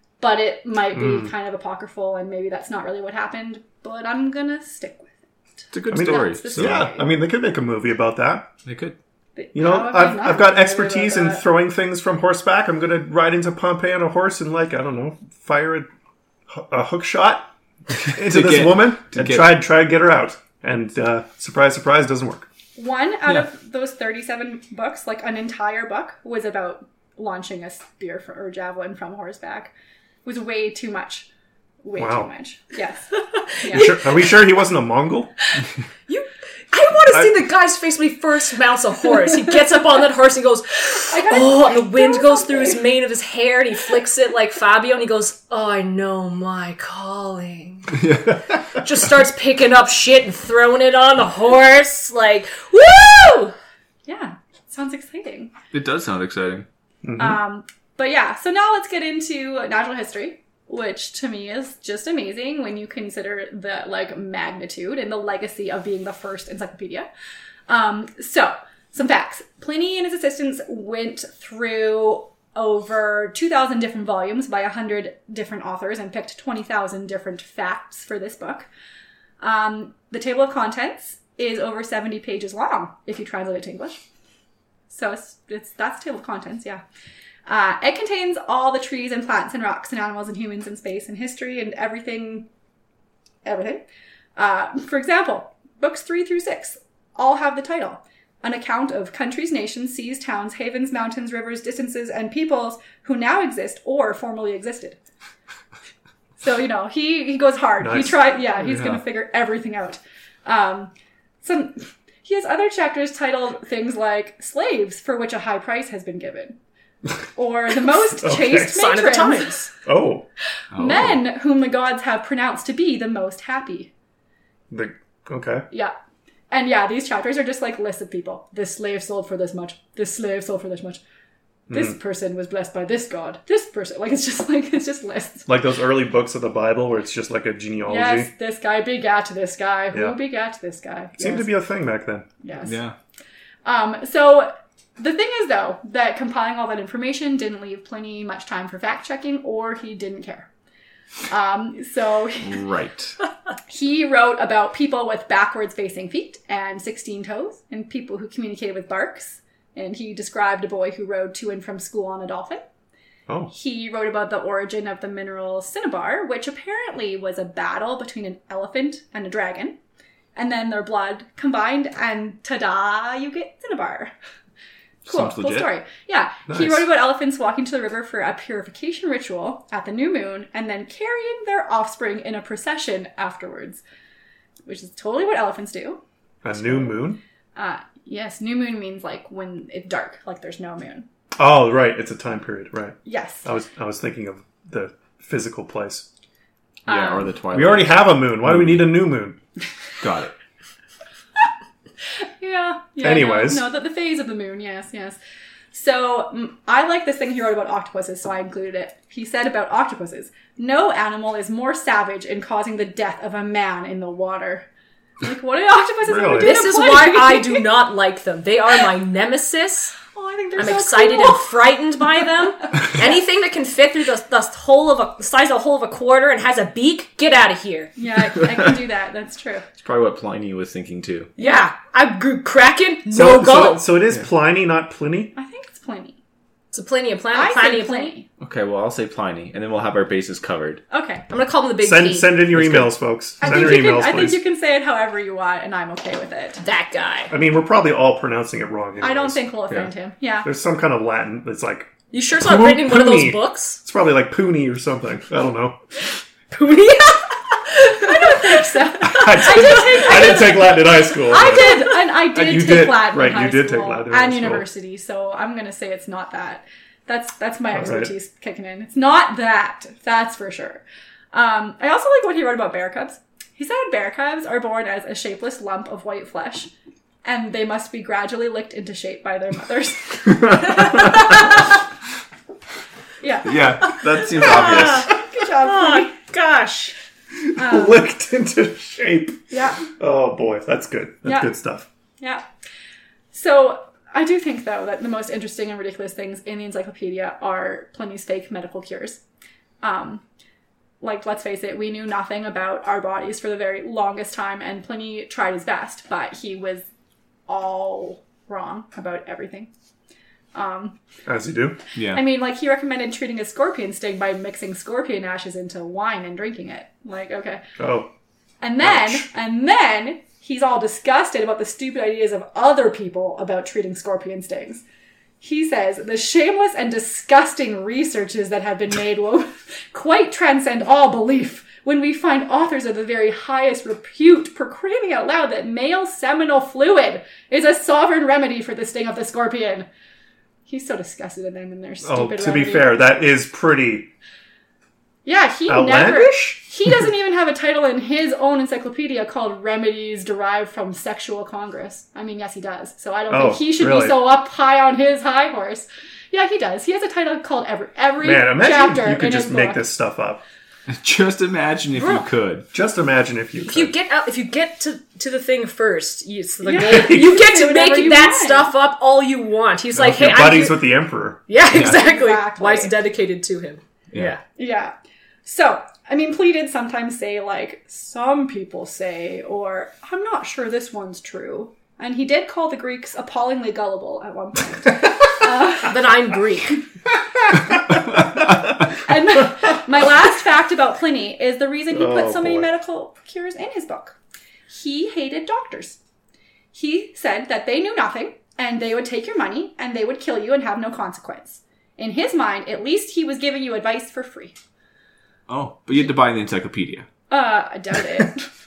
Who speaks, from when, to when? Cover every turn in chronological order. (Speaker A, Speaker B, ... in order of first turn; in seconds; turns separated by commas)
Speaker A: 0.2-5.2, Speaker B: 1.0-1.3, Speaker C: 5.7-6.8, Speaker A: 5.8-7.1, Speaker B: 5.9-8.5, Speaker C: 8.6-9.0, Speaker A: 9.3-11.4, Speaker B: 9.5-15.9, Speaker B: 16.5-17.5, Speaker C: 17.9-19.5, Speaker B: 18.0-22.5, Speaker A: 22.8-29.7, Speaker A: 30.2-31.3, Speaker A: 31.8-33.9, Speaker B: 31.9-32.3, Speaker D: 33.7-34.0, Speaker B: 33.7-35.3, Speaker D: 36.1-48.0, Speaker A: 41.1-42.8, Speaker C: 48.0-48.4, Speaker D: 48.8-53.5, Speaker A: 54.1-55.5, Speaker C: 55.7-56.6, Speaker B: 57.0-57.4, Speaker A: 57.2-67.1, Speaker A: 67.7-78.7, Speaker A: 79.4-84.0, Speaker A: 84.9-86.8, Speaker A: 87.5-92.5, Speaker A: 93.4-93.8, Speaker A: 94.4-105.0, Speaker A: 106.4-110.9, Speaker B: 107.8-108.2, Speaker A: 111.4-116.6, Speaker A: 117.3-119.6, Speaker B: 118.2-118.8, Speaker D: 118.6-119.7, Speaker B: 119.8-120.2, Speaker C: 120.7-121.2, Speaker A: 120.7-123.9, Speaker B: 124.7-125.7, Speaker A: 126.5-131.0, Speaker B: 131.7-131.9, Speaker A: 131.7-135.5, Speaker B: 135.5-138.3, Speaker A: 137.8-141.5, Speaker B: 141.2-142.3, Speaker A: 142.4-142.8, Speaker C: 142.6-142.9, Speaker A: 143.6-150.5, Speaker A: 151.3-152.6, Speaker C: 152.4-153.2, Speaker A: 153.7-162.6, Speaker A: 163.5-169.8, Speaker A: 170.3-174.1, Speaker C: 175.0-175.7, Speaker A: 175.1-183.8, Speaker B: 176.5-176.9, Speaker A: 184.7-186.0, Speaker B: 186.4-187.2, Speaker A: 186.6-187.0, Speaker A: 187.6-191.1, Speaker B: 191.4-196.1, Speaker A: 193.0-193.4, Speaker A: 196.9-197.3, Speaker C: 196.9-199.0, Speaker B: 197.5-199.4, Speaker C: 200.0-200.3, Speaker A: 202.4-205.2, Speaker B: 203.0-203.6, Speaker A: 205.7-214.7, Speaker A: 215.2-217.7, Speaker B: 216.1-216.6, Speaker D: 216.3-219.9, Speaker A: 220.1-221.5, Speaker D: 220.6-227.9, Speaker A: 227.9-229.6, Speaker C: 229.8-231.3, Speaker D: 231.4-233.9, Speaker B: 233.1-235.3, Speaker A: 235.3-236.2, Speaker D: 236.7-238.1, Speaker A: 237.3-238.3, Speaker C: 238.4-240.8, Speaker A: 240.9-241.2, Speaker D: 241.3-242.4, Speaker B: 241.8-244.4, Speaker C: 242.5-242.9, Speaker A: 243.4-246.6, Speaker D: 246.6-247.3, Speaker B: 247.3-249.4, Speaker A: 249.0-250.5, Speaker B: 250.4-255.8, Speaker D: 252.1-253.8, Speaker D: 256.5-258.6, Speaker A: 257.9-276.7, Speaker B: 259.0-264.6, Speaker D: 259.2-259.9, Speaker B: 267.7-268.1, Speaker A: 277.2-281.6, Speaker A: 283.2-286.1, Speaker C: 283.4-285.1, Speaker D: 284.2-286.9, Speaker B: 287.5-291.9, Speaker A: 287.5-288.0, Speaker A: 289.5-289.9, Speaker A: 291.2-291.5, Speaker A: 293.3-299.2, Speaker A: 299.8-300.2, Speaker A: 301.0-306.9, Speaker A: 307.5-309.7, Speaker A: 310.5-311.0, Speaker B: 311.2-311.8, Speaker C: 311.9-312.2, Speaker A: 312.1-317.6, Speaker B: 317.8-318.1, Speaker A: 318.6-324.8, Speaker B: 318.8-319.2, Speaker A: 325.4-339.9, Speaker A: 340.7-342.9, Speaker B: 342.0-344.1, Speaker A: 345.2-359.8, Speaker B: 345.7-346.6, Speaker B: 353.3-354.3, Speaker B: 358.2-360.4, Speaker C: 360.9-362.7, Speaker B: 362.7-363.9, Speaker D: 363.7-370.9, Speaker A: 366.6-368.7, Speaker B: 369.9-371.4, Speaker D: 371.5-374.4, Speaker C: 371.7-372.0, Speaker A: 371.7-372.9, Speaker A: 374.6-374.9, Speaker A: 375.4-386.0, Speaker D: 385.8-386.8, Speaker A: 388.9-394.2, Speaker B: 391.9-392.7, Speaker A: 394.7-396.0, Speaker A: 396.7-404.5, Speaker C: 405.5-407.1, Speaker A: 407.3-408.5